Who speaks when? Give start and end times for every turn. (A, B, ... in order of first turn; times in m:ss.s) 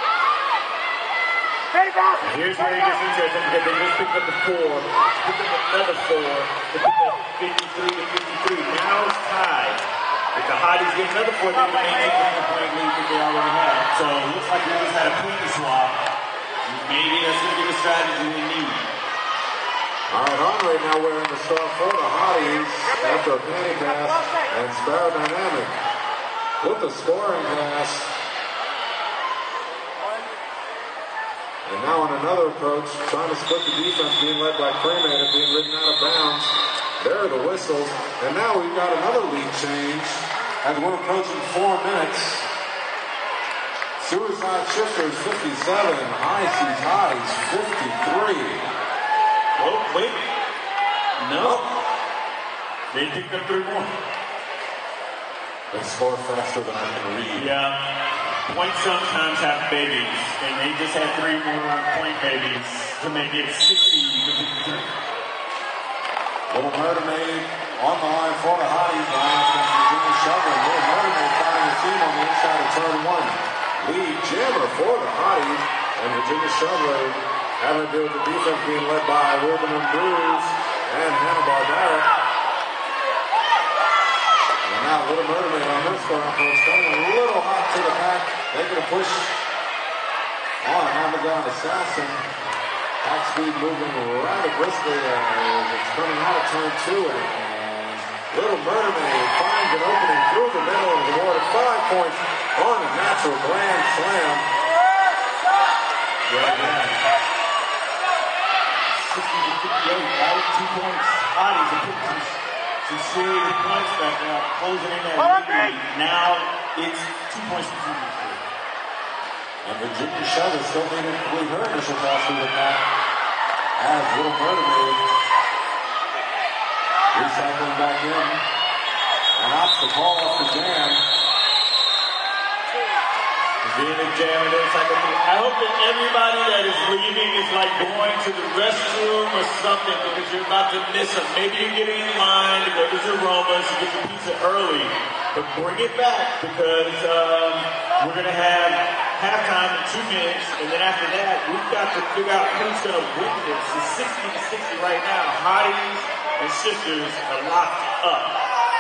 0:02.2-0:09.8 A
0:10.3-0:16.0 A
0:16.6-0:18.9 A
0:20.1-0:25.7 B
0:26.6-0:28.1 B
0:31.6-0:42.5 B
0:44.0-0:48.6 B
0:49.6-0:50.2 A
0:51.2-0:51.6 A
0:51.4-0:51.7 B
0:52.9-0:53.9 A
0:55.7-0:57.5 B
0:57.3-0:57.8 A
0:58.4-1:04.9 A
1:06.5-1:22.1 B
1:24.6-1:29.3 B
1:30.6-1:32.2 B
1:33.0-1:44.5 B
1:46.3-1:47.0 A
1:46.4-1:46.9 B
1:48.9-1:58.4 A
1:59.6-2:02.8 B
2:03.8-2:05.0 B
2:07.1-2:08.4 B
2:09.4-2:11.0 B
2:13.6-2:38.3 A